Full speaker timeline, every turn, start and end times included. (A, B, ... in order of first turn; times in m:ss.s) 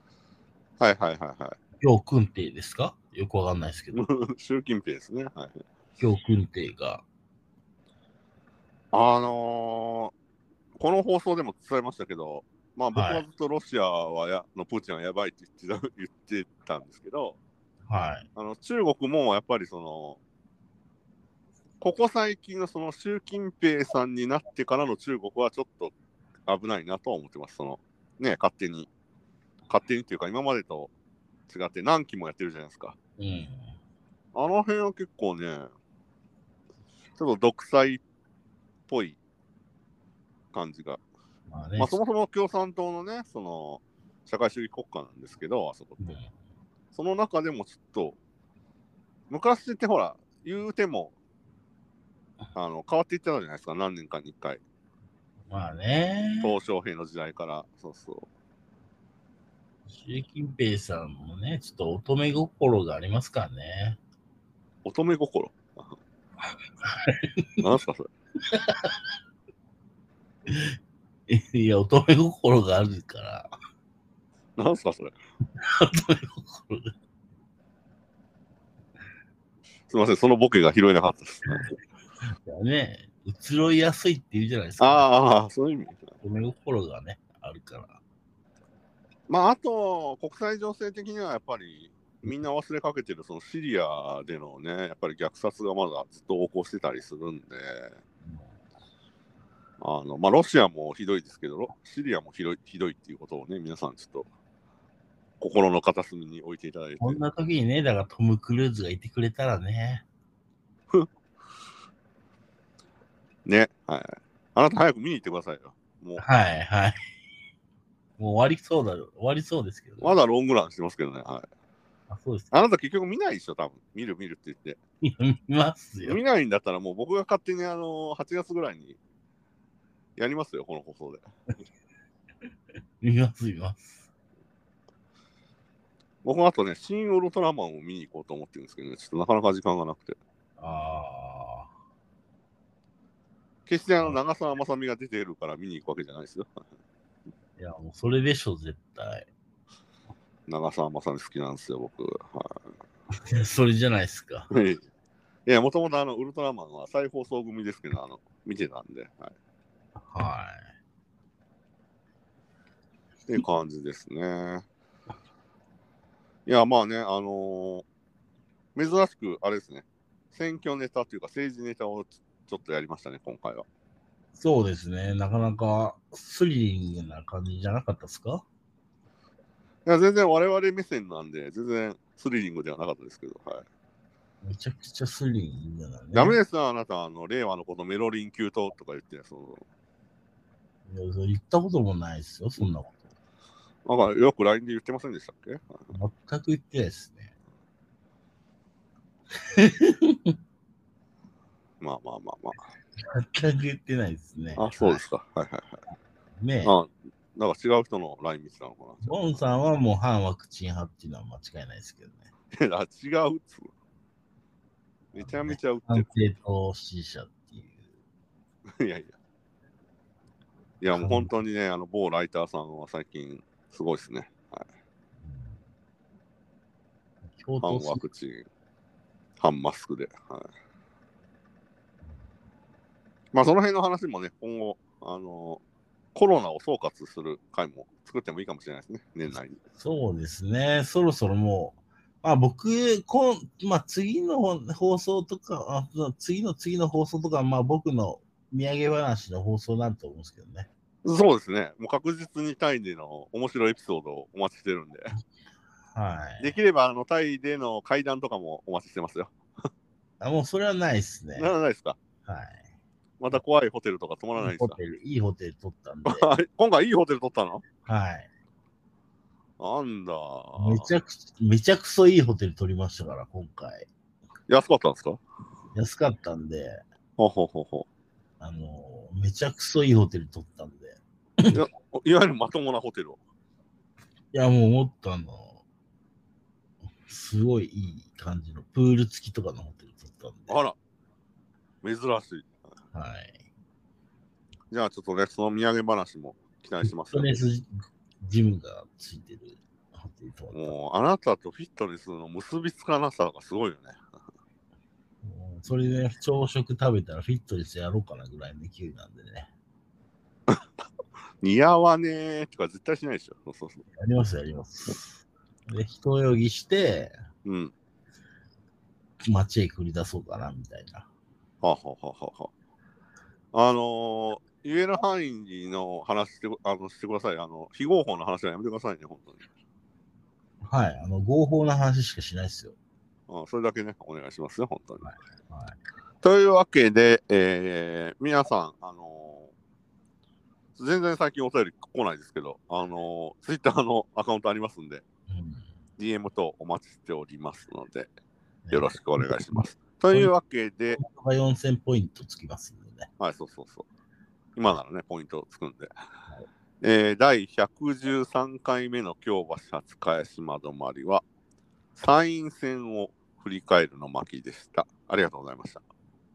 0:00.8-0:01.6 A
0:01.8-0:04.0 B
0:03.9-0:05.6 A
0:06.0-0:07.0 B
0:08.9-0:10.1 A
0:10.8-0:17.4 A
0:12.9-0:13.2 B
0:17.9-0:18.3 B
0:18.4-0:20.2 A
0:21.8-0:25.9 A
0:26.5-0:28.9 A
0:29.7-0:30.9 A
0:31.5-0:33.0 A
0:33.2-0:33.7 B
0:34.3-0:35.7 A
0:37.2-0:38.0 A
0:38.9-0:39.2 A
0:40.5-0:41.0 A
0:41.5-0:42.0 B
0:41.8-0:46.1 A
0:46.0-0:46.3 B
0:46.9-0:48.2 A
0:49.3-0:51.1 A
0:52.6-0:54.6 A
0:55.5-0:56.5 B
0:56.4-0:58.3 A
0:59.9-1:04.0 B
1:04.8-1:05.9 A
1:06.8-1:07.6 B
1:07.6-1:08.1 A
1:08.5-1:09.0 B
1:10.5-1:10.8 B
1:11.3-1:13.5 B
1:14.6-1:15.2 A
1:15.6-1:16.9 B
1:19.9-1:21.7 A
1:22.4-1:25.1 B
1:24.8-1:26.1 A
1:26.2-1:28.0 B
1:29.3-1:38.0 A
1:39.8-1:44.3 A
1:45.4-1:47.2 A
1:47.0-1:50.0 B
1:53.5-1:56.2 A
1:56.2-1:57.1 B
1:58.2-2:00.2 B
2:00.0-2:01.5 A
2:02.1-2:02.5 B
2:02.5-2:04.8 A
2:05.0-2:06.2 B
2:06.0-2:09.0 A
2:10.2-2:11.2 A
2:13.0-2:13.9 B
2:16.2-2:20.2 A
2:20.6-2:21.7 B
2:23.7-2:26.6 A
2:27.6-2:29.3 B
2:30.5-2:32.6 A
2:33.2-2:34.5 B
2:34.5-2:34.8 A
2:35.5-2:39.4 A
2:40.1-2:40.7 B
2:43.3-2:44.6 A
2:46.5-2:47.8 A
2:48.8-2:53.7 A
2:54.4-2:58.4 B
2:59.9-3:03.7 A
3:04.4-3:06.4 B
3:06.1-3:09.6 A
3:10.9-3:13.1 B
3:13.9-3:15.9 A
3:15.9-3:17.3 B
3:19.4-3:20.4 B
3:21.8-3:22.6 A
3:23.0-3:25.0 B
3:24.6-3:25.8 A
3:26.4-3:26.8 B
3:26.6-3:29.2 A
3:29.0-3:32.3 B
3:32.5-3:33.7 A
3:35.1-3:36.1 A
3:35.2-3:37.8 B
3:38.8-3:39.1 A
3:40.8-3:44.7 A
3:40.9-3:41.4 B
3:45.2-3:45.6 B
3:47.3-3:48.0 B
3:47.6-3:48.5 A
3:49.4-3:50.5 A
3:53.3-3:55.6 A
3:56.2-3:59.6 A
3:59.8-4:10.7 B
4:11.0-4:15.1 A
4:15.9-4:16.6 B
4:16.4-4:19.3 A
4:20.2-4:21.5 B
4:21.4-4:22.0 A
4:22.2-4:22.6 B
4:23.2-4:24.8 A
4:24.4-4:26.3 B
4:26.1-4:27.6 A
4:27.9-4:28.3 B
4:29.6-4:30.9 A
4:30.6-4:33.9 B
4:34.5-4:35.2 A
4:35.7-4:36.8 B
4:37.2-4:37.9 A
4:38.4-4:41.6 B
4:41.5-4:43.2 A
4:44.3-4:45.6 B
4:47.1-4:50.6 B
4:50.5-4:50.8 A
4:51.8-4:52.6 A
4:52.9-4:53.4 B
4:54.7-4:57.4 A
4:56.8-5:00.7 B
5:00.5-5:04.0 A
5:05.2-5:09.5 B
5:11.4-5:13.8 A
5:14.0-5:17.2 B
5:17.4-5:17.7 A
5:19.3-5:21.1 B
5:21.6-5:22.5 A
5:23.5-5:29.5 A
5:30.7-5:32.8 B
5:33.3-5:35.1 A
5:35.0-5:35.8 B
5:36.2-5:39.5 A
5:40.8-5:45.0 A
5:45.3-5:45.7 B
5:46.0-5:48.1 A
5:48.7-5:49.3 B
5:48.7-5:51.0 A
5:50.9-5:53.1 B
5:53.2-5:53.9 A
5:54.6-5:55.9 A
5:56.8-6:01.2 A
6:02.0-6:05.8 A